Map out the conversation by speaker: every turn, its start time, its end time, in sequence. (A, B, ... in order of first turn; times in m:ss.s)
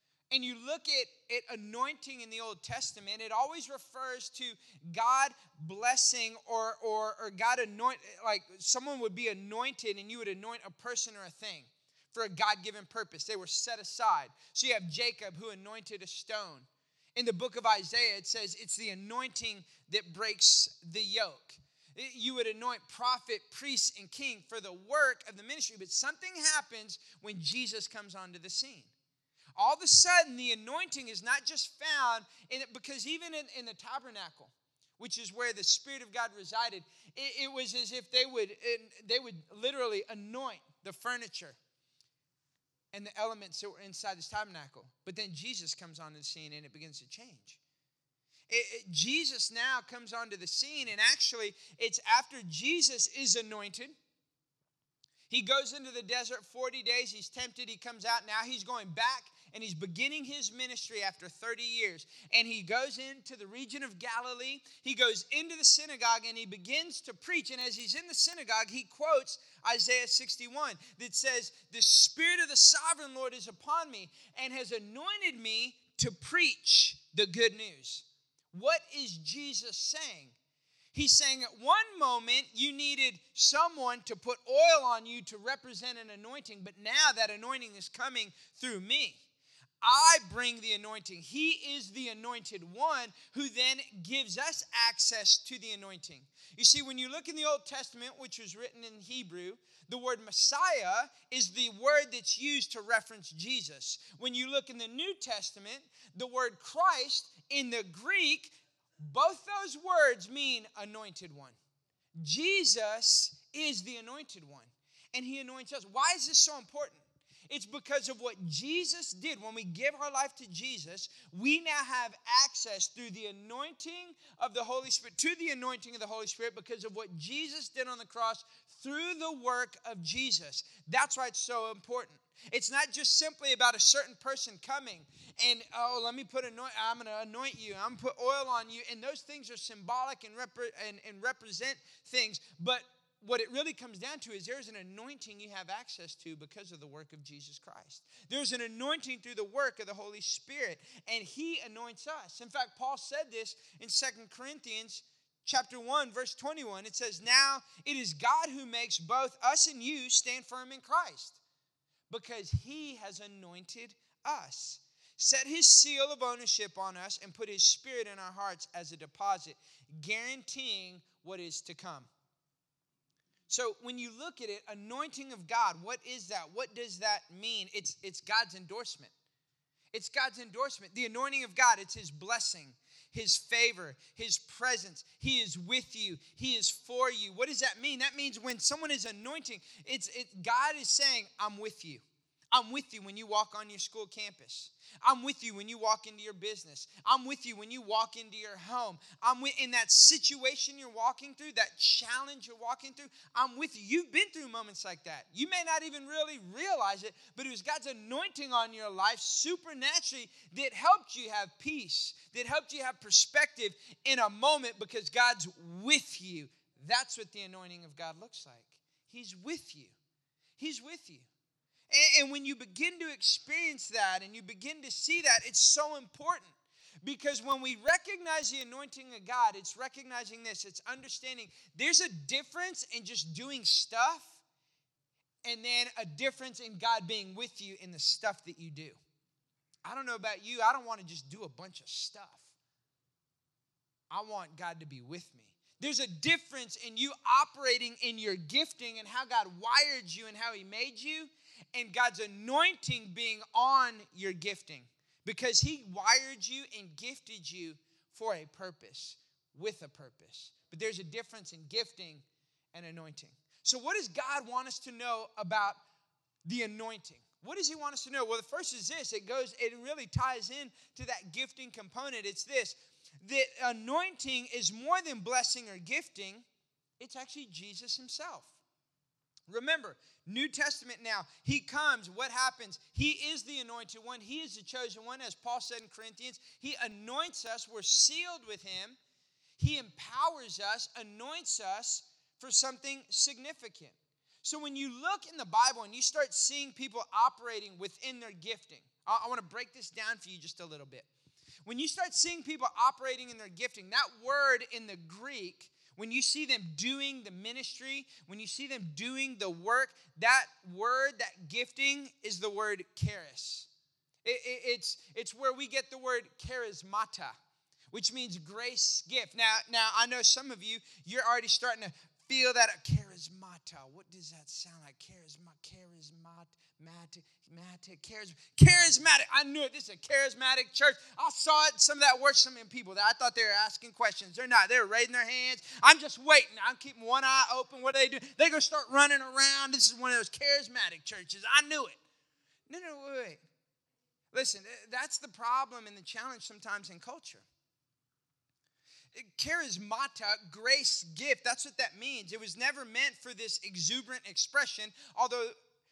0:00.3-0:28.9 A
0:29.6-0:41.6 A
0:42.9-0:47.6 A
0:48.5-0:53.9 A
0:55.3-1:20.3 A
1:20.9-1:29.2 A
1:29.8-1:51.6 A
1:52.2-2:41.4 A
2:42.1-2:52.1 A
2:53.5-2:59.1 A
2:59.9-3:39.9 A
3:40.6-3:41.3 A
3:41.9-3:54.4 A
3:55.4-3:59.0 A
3:59.8-4:02.5 A
4:04.1-4:25.8 A
4:26.4-4:36.4 A
4:37.0-4:38.6 A
4:39.5-4:49.0 A
4:49.6-5:01.1 A
5:01.6-5:13.7 A
5:14.2-5:17.3 A
5:17.9-5:42.0 A
5:42.7-5:43.4 A
5:44.3-5:47.4 A
5:49.1-5:55.5 A